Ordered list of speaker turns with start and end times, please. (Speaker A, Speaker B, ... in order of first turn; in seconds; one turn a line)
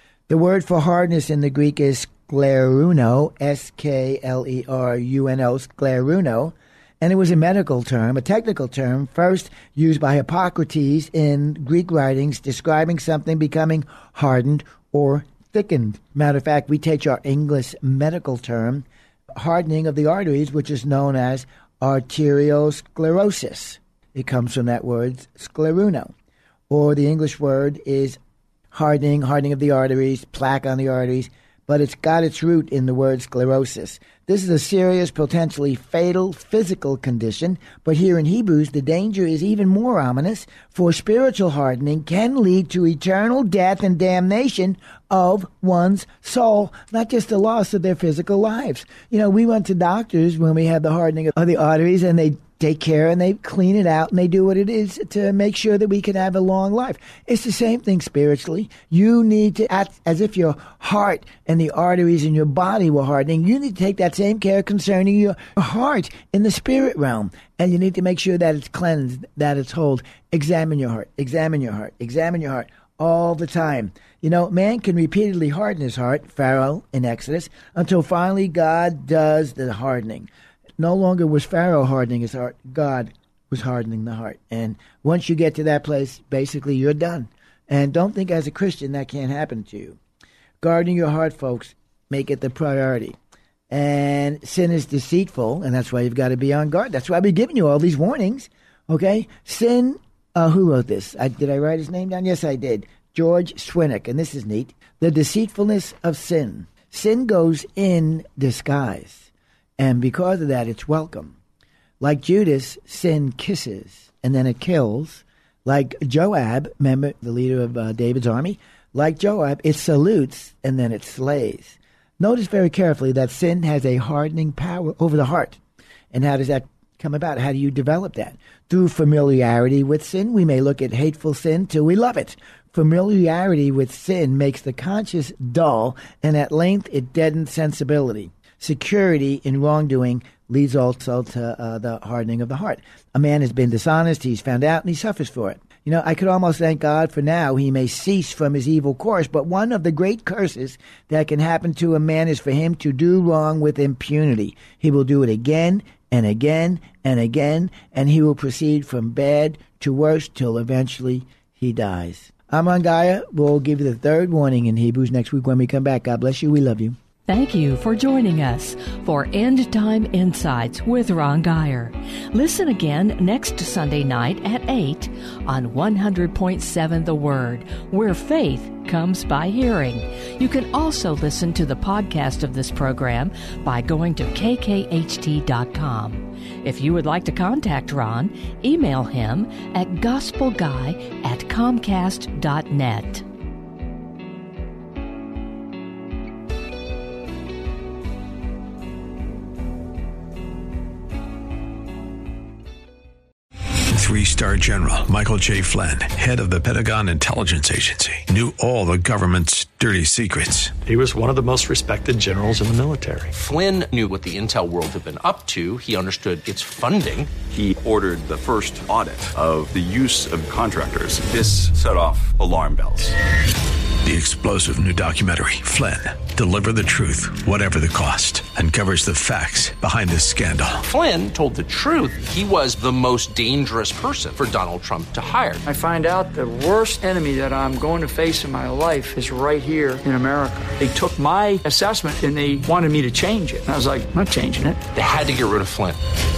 Speaker A: 0.3-26.1
Speaker A: 26.7-28.2
Speaker A: 28.7-90.0
Speaker A: 90.6-93.2
Speaker A: 93.7-111.3
Speaker A: 112.0-125.6
Speaker A: 126.1-166.9
Speaker B: 167.3-193.2
Speaker C: 203.9-210.8
Speaker D: 210.8-213.3
Speaker E: 213.3-217.3
Speaker F: 217.5-223.1
Speaker C: 224.0-230.8
Speaker E: 230.8-235.6
Speaker G: 235.7-244.8
Speaker E: 244.9-246.0